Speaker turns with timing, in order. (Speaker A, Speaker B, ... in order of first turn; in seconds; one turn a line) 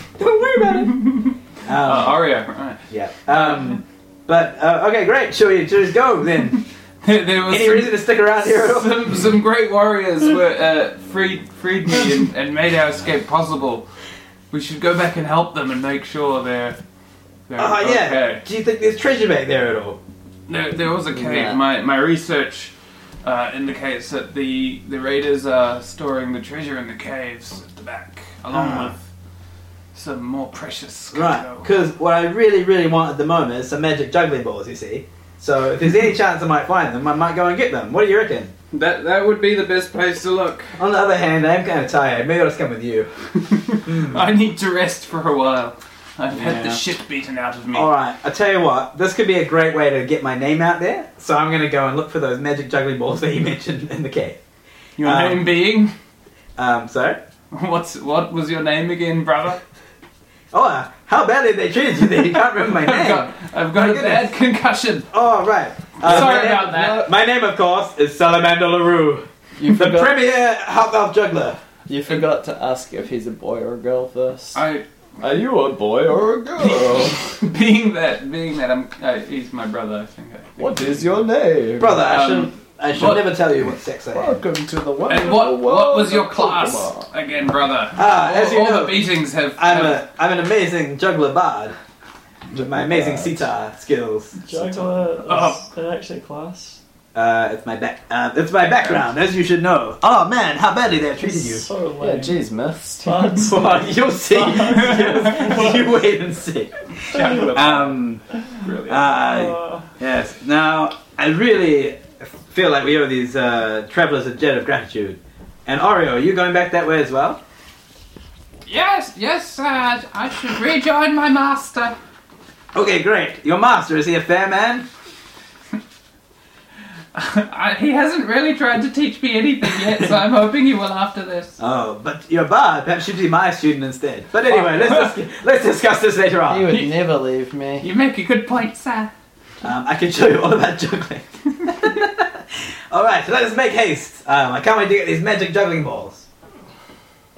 Speaker A: 0.2-2.2
Speaker B: 0.8-3.8
Speaker A: 2.9-6.6
Speaker B: 7.0-13.9
Speaker A: 7.5-9.2
Speaker B: 14.5-16.8
Speaker B: 17.5-18.4
Speaker A: 17.6-20.0
Speaker B: 20.5-29.0
Speaker C: 21.1-21.6
Speaker A: 28.5-28.9
Speaker B: 29.9-31.7
Speaker A: 31.1-38.5
Speaker B: 38.7-40.8
Speaker A: 40.8-44.2
Speaker B: 43.5-47.9
Speaker A: 46.4-46.8
Speaker A: 47.7-54.4
Speaker B: 55.0-55.9
Speaker A: 55.0-55.5
Speaker A: 56.6-57.2
Speaker B: 57.5-59.6
Speaker A: 60.5-64.3
Speaker B: 62.6-65.1
Speaker A: 65.1-71.6
Speaker B: 66.0-67.1
Speaker C: 66.1-67.1
Speaker C: 69.6-70.2
Speaker C: 71.9-74.6
Speaker B: 74.5-74.8
Speaker C: 75.2-77.2
Speaker B: 76.6-81.3
Speaker C: 80.6-82.0
Speaker A: 81.8-84.4
Speaker B: 82.0-83.3
Speaker C: 84.1-87.1
Speaker B: 85.1-90.0
Speaker A: 88.0-91.8
Speaker A: 92.5-94.4
Speaker C: 92.7-93.4
Speaker D: 94.4-96.8
Speaker B: 94.5-95.7
Speaker A: 97.1-101.7
Speaker B: 98.6-99.0
Speaker D: 101.2-102.4
Speaker C: 102.0-103.4
Speaker D: 103.0-105.9
Speaker A: 103.4-108.2
Speaker B: 107.1-108.1
Speaker B: 108.6-109.1
Speaker A: 108.9-117.4
Speaker D: 109.2-109.9
Speaker B: 118.7-122.0
Speaker A: 122.7-124.9
Speaker B: 127.1-131.6
Speaker A: 131.6-136.7
Speaker B: 134.4-135.2
Speaker C: 136.5-137.9
Speaker B: 136.7-137.0
Speaker B: 137.8-139.1
Speaker A: 139.6-146.2